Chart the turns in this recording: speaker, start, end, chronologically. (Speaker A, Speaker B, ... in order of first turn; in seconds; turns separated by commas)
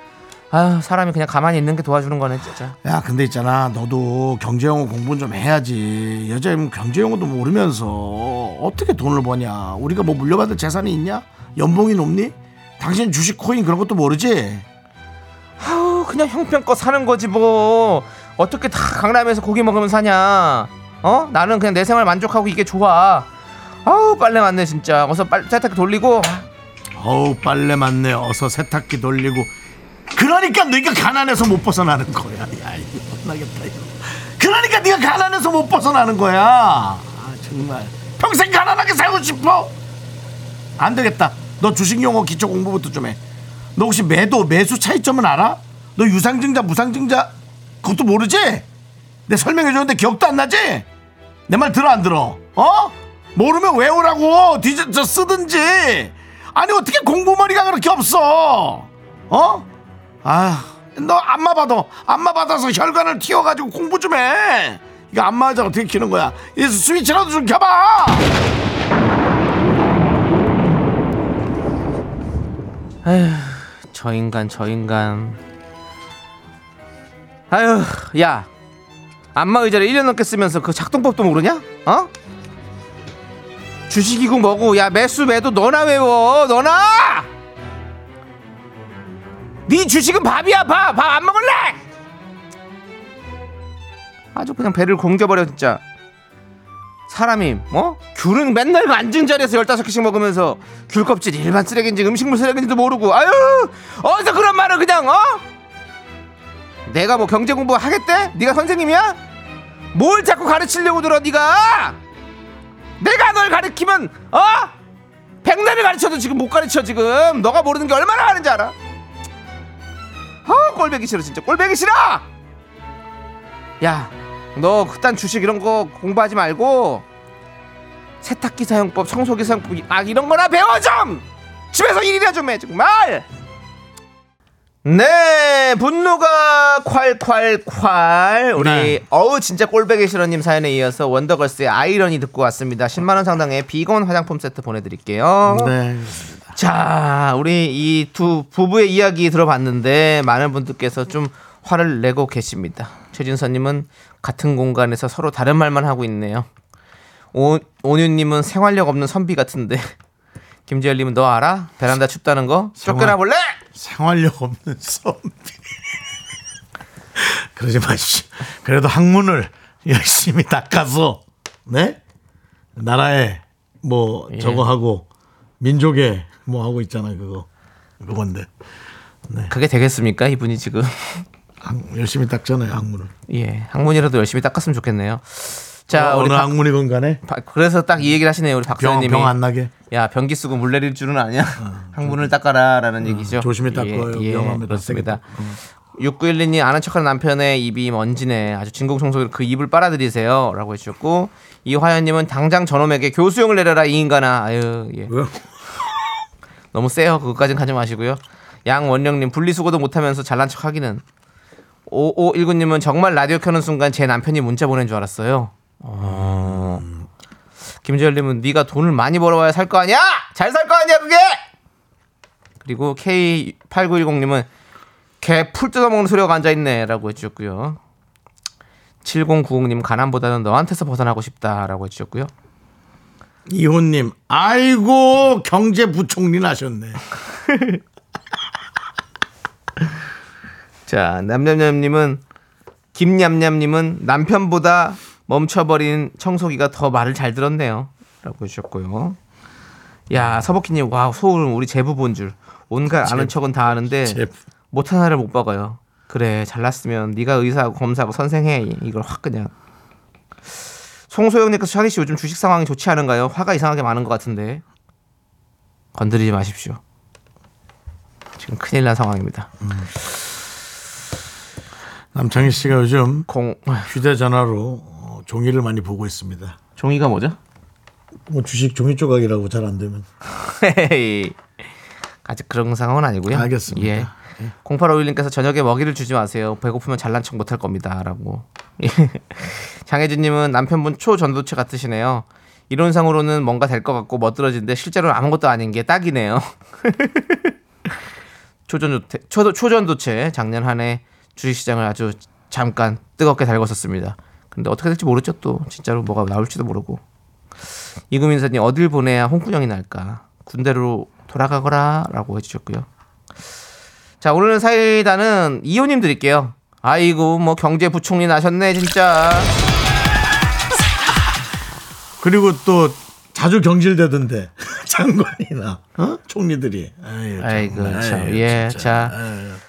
Speaker A: 0.5-2.8, Speaker B: 2.8-14.7, Speaker A: 15.6-23.3, Speaker A: 23.8-26.4, Speaker B: 26.9-29.5, Speaker B: 30.1-39.7, Speaker B: 40.8-43.2, Speaker B: 43.7-48.6, Speaker B: 49.3-50.9, Speaker B: 51.5-59.7, Speaker B: 60.2-68.2, Speaker A: 73.0-75.4, Speaker A: 77.5-78.5, Speaker A: 79.3-82.1, Speaker A: 83.9-87.3, Speaker A: 89.7-91.8, Speaker A: 94.3-95.8, Speaker A: 97.1-105.4, Speaker A: 106.9-109.2, Speaker A: 109.9-112.0, Speaker A: 113.0-114.7, Speaker A: 115.4-118.7, Speaker A: 120.5-122.2, Speaker A: 123.8-127.0, Speaker A: 128.2-133.3, Speaker A: 134.8-145.7, Speaker B: 138.6-139.0, Speaker B: 145.4-146.4, Speaker A: 146.5-156.5, Speaker A: 157.3-159.9, Speaker A: 160.7-163.5, Speaker B: 162.8-163.2, Speaker B: 163.7-165.7, Speaker B: 167.2-172.0, Speaker B: 172.8-175.1, Speaker A: 174.3-174.6, Speaker B: 175.6-177.5, Speaker B: 178.0-178.5, Speaker A: 179.5-181.2, Speaker B: 181.6-183.1, Speaker A: 183.3-186.5, Speaker B: 185.9-187.2, Speaker A: 187.2-189.3, Speaker B: 188.8-189.7, Speaker A: 189.9-195.2, Speaker B: 191.6-192.3, Speaker B: 193.0-195.6, Speaker A: 196.0-205.1, Speaker B: 205.1-206.1, Speaker A: 206.7-211.0, Speaker A: 211.9-216.8, Speaker B: 216.0-217.0, Speaker A: 217.8-221.4, Speaker A: 222.6-224.5, Speaker A: 225.2-227.8, Speaker A: 229.0-232.3, Speaker B: 233.5-237.0, Speaker A: 237.5-237.8, Speaker A: 240.9-242.2, Speaker A: 242.9-249.2, Speaker A: 250.1-259.5, Speaker B: 253.0-253.3, Speaker B: 253.9-254.3, Speaker A: 261.1-264.6, Speaker A: 265.9-266.8, Speaker A: 268.4-269.5, Speaker B: 269.6-269.9, Speaker B: 272.1-273.3, Speaker A: 273.3-273.9, Speaker B: 273.9-276.6, Speaker A: 276.8-277.4, Speaker B: 278.3-280.1, Speaker A: 280.3-281.4, Speaker A: 282.2-284.1, Speaker B: 283.3-284.5, Speaker A: 284.6-297.5, Speaker A: 298.7-307.0, Speaker A: 308.1-312.9, Speaker A: 314.2-319.5, Speaker B: 322.2-329.6, Speaker A: 327.4-329.1